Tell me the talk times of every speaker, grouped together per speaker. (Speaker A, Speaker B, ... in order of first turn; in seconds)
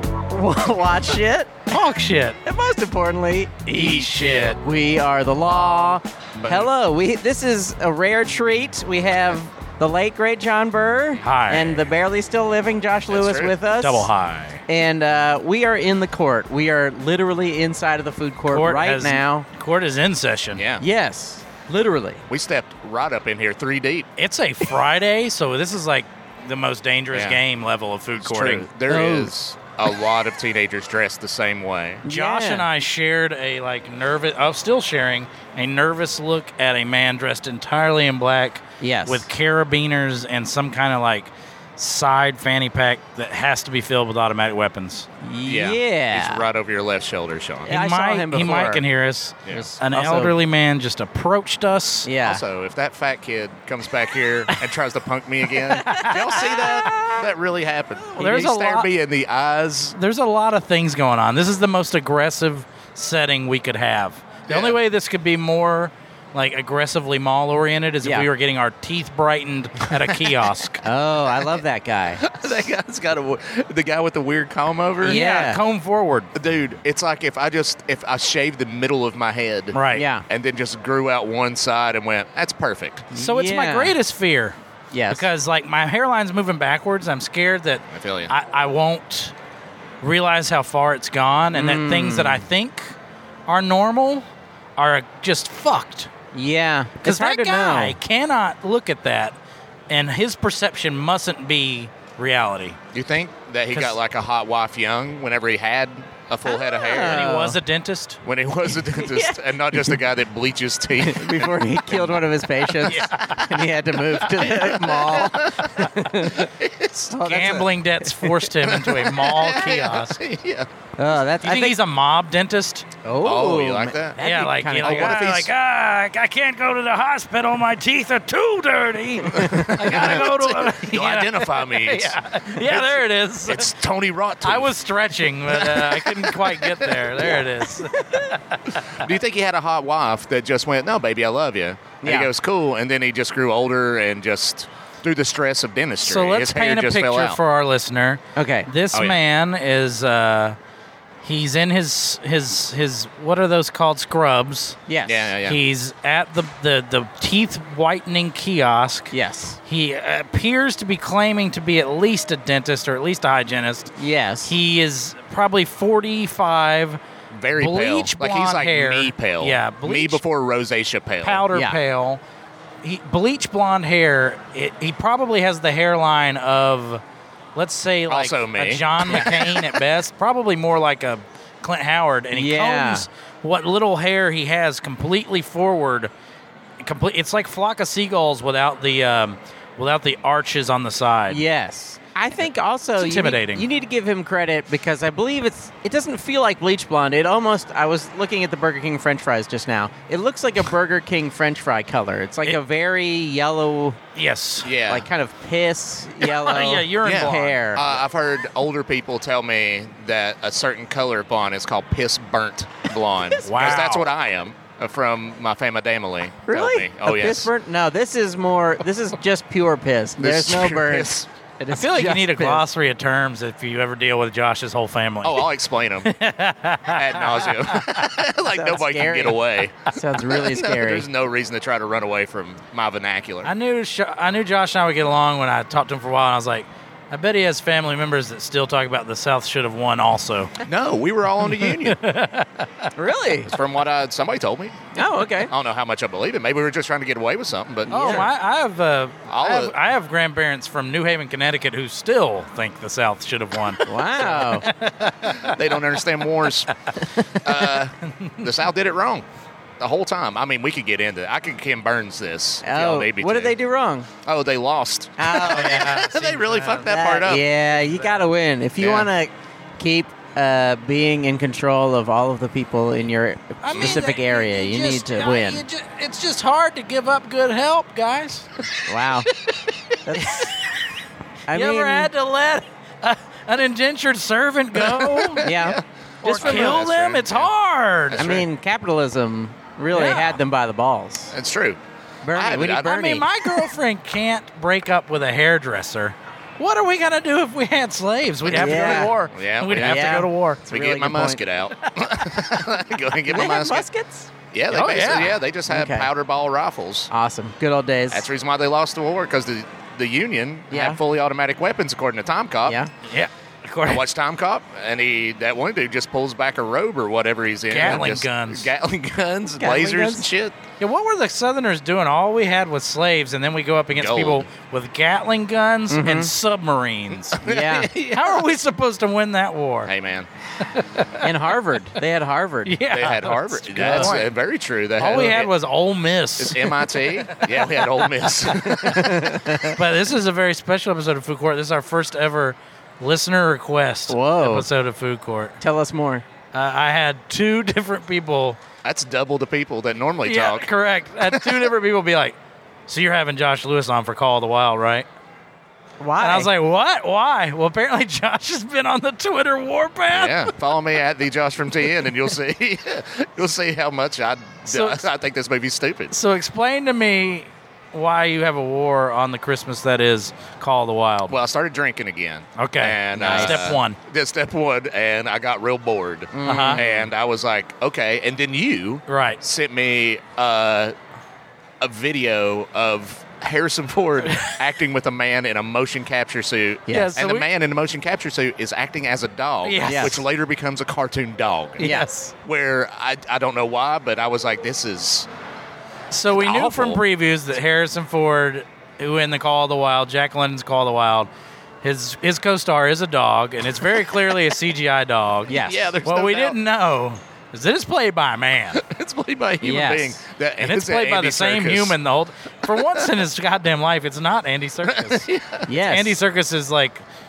Speaker A: 0.3-1.6, 2.4-3.6, 4.6-14.1, 14.7-19.4, 20.8-22.2, 28.9-29.3, 32.0-32.7, 38.8-39.3, 45.2-46.4, 47.7-48.8, 49.5-50.3, 52.0-52.4, 55.9-57.2, 68.0-68.3, 70.8-72.2, 75.0-75.6, 79.9-80.2, 83.1-84.0, 84.9-85.2, 91.5-92.4, 96.3-98.0, 106.5-107.6, 108.8-110.0, 111.0-116.5, 117.1-118.4, 121.0-121.8, 123.0-125.3, 129.3-129.9, 142.0-142.3, 148.3-148.7, 154.9-155.3, 159.1-159.6, 164.0-164.5, 171.5-171.8, 182.3-183.1, 191.3-204.0, 204.8-207.9, 216.5-222.7, 228.5-231.1, 242.9-243.5, 244.9-245.5, 247.9-248.3, 253.8-254.7, 262.6-264.1, 265.2-265.9, 266.9-275.6, 278.8-279.3, 280.0-280.5, 281.5-282.1, 285.4-286.8, 288.2-291.3, 292.2-293.3, 298.5-299.1, 299.7-301.4, 303.3-304.3, 305.7-306.1, 307.1-308.2, 310.7-311.0, 319.6-320.2, 325.9-326.3, 327.4-327.9, 331.2-332.8, 333.7-334.2, 335.1-335.4, 338.7-339.8, 344.1-344.7, 345.6-346.2, 356.0-356.5, 373.1-373.8, 376.3-377.0, 386.9-387.1, 389.8-390.2, 391.8-392.3, 405.5-405.9, 409.6-410.2, 415.7-416.2
Speaker B: 1.7-2.4, 3.6-4.6, 11.2-11.9, 13.7-14.6, 18.5-20.6, 24.2-28.7, 32.1-45.1, 47.7-52.1, 55.7-56.8, 58.2-58.9, 60.0-70.8, 75.0-76.3, 79.7-80.0, 83.1-84.5, 85.1-89.3, 90.0-92.9, 93.5-94.2, 94.8-96.1, 97.0-99.3, 99.9-102.8, 107.0-108.2, 112.8-113.6, 114.3-114.9, 117.1-120.2, 121.3-122.8, 124.2-133.7, 134.4-138.9, 146.0-150.6, 151.2-154.8, 155.4-159.1, 159.7-163.9, 164.4-167.0, 167.6-170.2, 171.2-172.2, 172.8-177.0, 177.6-186.1, 186.8-191.4, 193.0-193.6, 204.1-204.7, 206.2-207.6, 213.4-214.1, 221.7-225.5, 226.0-228.1, 233.4-240.5, 241.5-242.9, 247.9-255.9, 258.1-258.5, 265.4-268.3, 273.6-278.6, 280.1-280.6, 281.5-285.5, 286.2-288.3, 289.9-290.4, 292.8-300.6, 304.7-305.4, 313.0-314.0, 317.7-318.7, 320.8-327.4, 328.0-329.9, 330.6-331.3, 332.6-334.3, 335.0-338.8, 339.7-345.6, 346.5-348.6, 350.2-352.4, 352.9-355.1, 356.2-360.5, 364.7-365.1, 366.1-371.4, 372.6-374.0, 376.4-376.8, 379.1-379.4, 384.3-384.6, 386.9-387.5, 389.6-390.2, 391.8-392.1, 396.1-401.3, 401.8-408.8, 410.6-415.3, 415.8-417.0
Speaker C: 6.4-6.7, 13.1-13.5, 20.6-20.8, 22.3-24.1, 27.1-27.4, 28.2-32.0, 45.4-47.8, 52.2-60.0, 64.5-64.8, 70.0-70.4, 72.2-75.2, 76.3-83.1, 87.9-88.3, 102.9-107.3, 108.2-112.2, 114.6-117.1, 118.6-120.7, 123.2-124.2, 124.8-125.5, 129.3-134.7, 135.5-137.4, 138.9-147.4, 148.9-149.2, 155.1-155.6, 167.3-171.5, 178.1-179.7, 204.6-205.1, 207.0-217.5, 220.2-221.3, 225.2-226.1, 226.9-233.5, 240.6-242.0, 243.5-248.3, 249.3-249.7, 255.4-256.7, 257.3-259.2, 259.8-263.6, 264.2-267.4, 268.8-269.1, 284.7-287.5, 288.1-288.4, 291.3-291.8, 292.3-293.0, 298.5-303.9, 304.5-307.1, 308.1-312.8, 313.8-320.6, 323.9-324.5, 327.4-328.4, 329.9-330.3, 332.9-335.5, 336.4-339.4, 348.8-350.7, 351.3-351.7, 360.1-366.1, 371.3-380.9, 381.8-395.3, 396.3-397.0, 405.5-406.6, 408.7-411.9, 412.8-413.1, 414.9-415.7